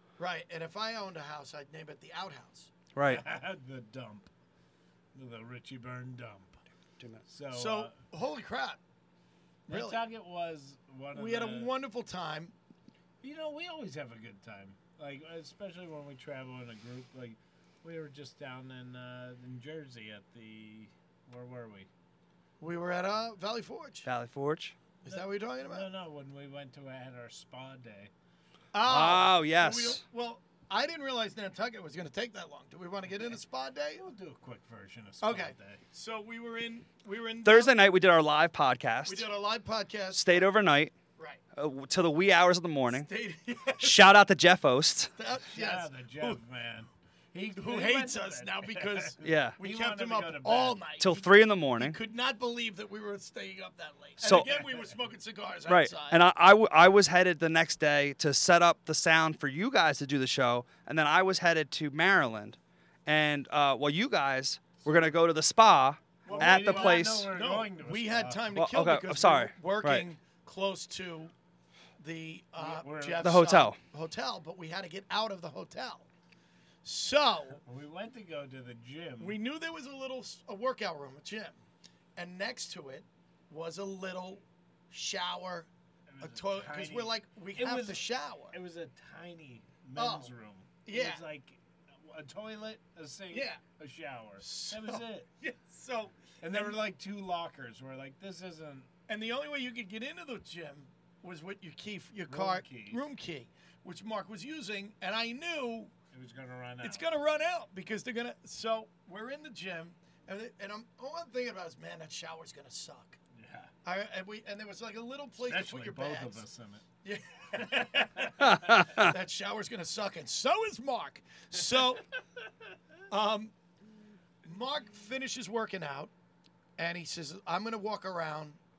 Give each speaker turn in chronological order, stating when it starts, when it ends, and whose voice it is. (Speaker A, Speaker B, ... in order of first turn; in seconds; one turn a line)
Speaker A: 0.2-2.7
Speaker B: 3.0-3.2
Speaker C: 3.0-4.3
Speaker C: 5.2-6.6
Speaker C: 7.3-8.0
Speaker A: 7.5-8.8
Speaker A: 9.7-10.0
Speaker C: 9.7-11.7
Speaker A: 11.1-12.5
Speaker C: 13.2-21.9
Speaker A: 22.6-24.1
Speaker B: 24.1-24.8
Speaker A: 25.0-25.9
Speaker C: 25.1-28.1
Speaker A: 28.7-34.1
Speaker B: 28.9-30.0
Speaker C: 34.0-35.8
Speaker A: 35.2-37.8
Speaker B: 37.4-39.3
Speaker A: 39.1-40.5
Speaker B: 40.1-40.9
Speaker B: 41.6-43.1
Speaker A: 42.9-44.1
Speaker B: 43.8-45.1
Speaker A: 45.2-46.4
Speaker C: 45.5-50.8
Speaker A: 47.6-56.2
Speaker B: 49.2-49.6
Speaker B: 51.0-52.0
Speaker B: 54.2-54.5
Speaker C: 54.2-54.9
Speaker B: 55.7-67.3
Speaker A: 66.2-71.3
Speaker C: 66.3-68.6
Speaker B: 68.5-70.1
Speaker A: 72.0-76.1
Speaker C: 72.6-73.4
Speaker B: 73.2-73.8
Speaker A: 76.8-77.6
Speaker C: 77.6-79.4
Speaker A: 79.2-81.6
Speaker A: 82.2-85.7
Speaker C: 86.1-95.3
Speaker A: 86.2-88.5
Speaker A: 90.0-90.3
Speaker A: 90.8-91.2
Speaker A: 93.3-93.6
Speaker A: 94.4-96.8
Speaker C: 96.4-98.9
Speaker A: 99.1-105.9
Speaker C: 102.3-103.0
Speaker C: 106.1-107.0
Speaker A: 106.8-113.2
Speaker C: 113.3-113.7
Speaker A: 113.8-116.4
Speaker C: 115.4-116.8
Speaker A: 117.0-122.0
Speaker C: 117.8-118.3
Speaker B: 118.4-119.1
Speaker A: 123.1-123.5
Speaker A: 124.4-126.1
Speaker A: 126.8-128.6